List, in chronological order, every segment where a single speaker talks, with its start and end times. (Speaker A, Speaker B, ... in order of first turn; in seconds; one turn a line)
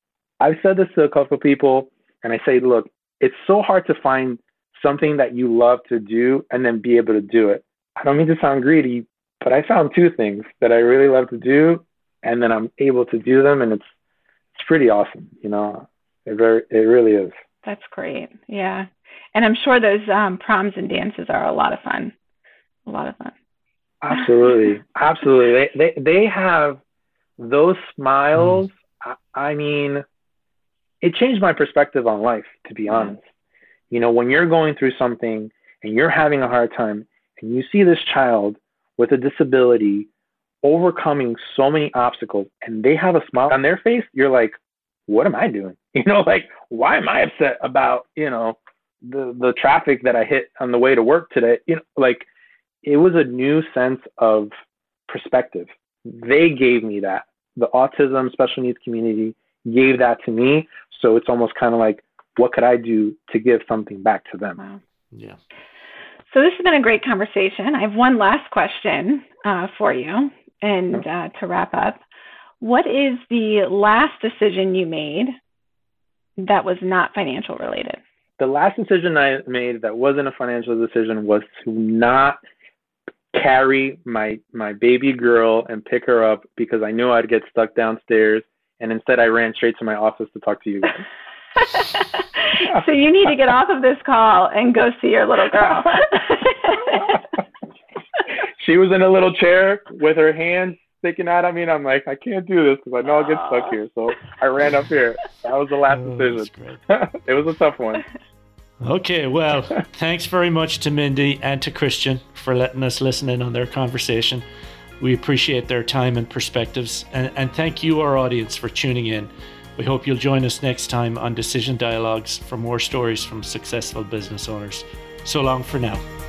Speaker A: 0.4-13.8
Speaker A: 14.5-17.3
Speaker B: 17.6-22.1
Speaker B: 22.9-23.3
Speaker A: 24.0-26.8
Speaker A: 27.4-30.0
Speaker A: 31.0-33.2
Speaker B: 32.9-33.1
Speaker A: 33.9-40.1
Speaker A: 40.6-44.5
Speaker A: 45.1-52.3
Speaker A: 52.8-54.5
Speaker A: 55.1-64.6
Speaker C: 65.1-65.4
Speaker B: 66.3-72.0
Speaker B: 72.6-75.3
Speaker B: 76.4-78.0
Speaker A: 78.4-82.4
Speaker A: 83.3-91.0
Speaker B: 91.8-97.2
Speaker A: 95.5-96.0
Speaker A: 96.9-97.2
Speaker A: 98.6-108.0
Speaker C: 105.9-106.8
Speaker C: 108.8-114.4
Speaker C: 115.0-126.0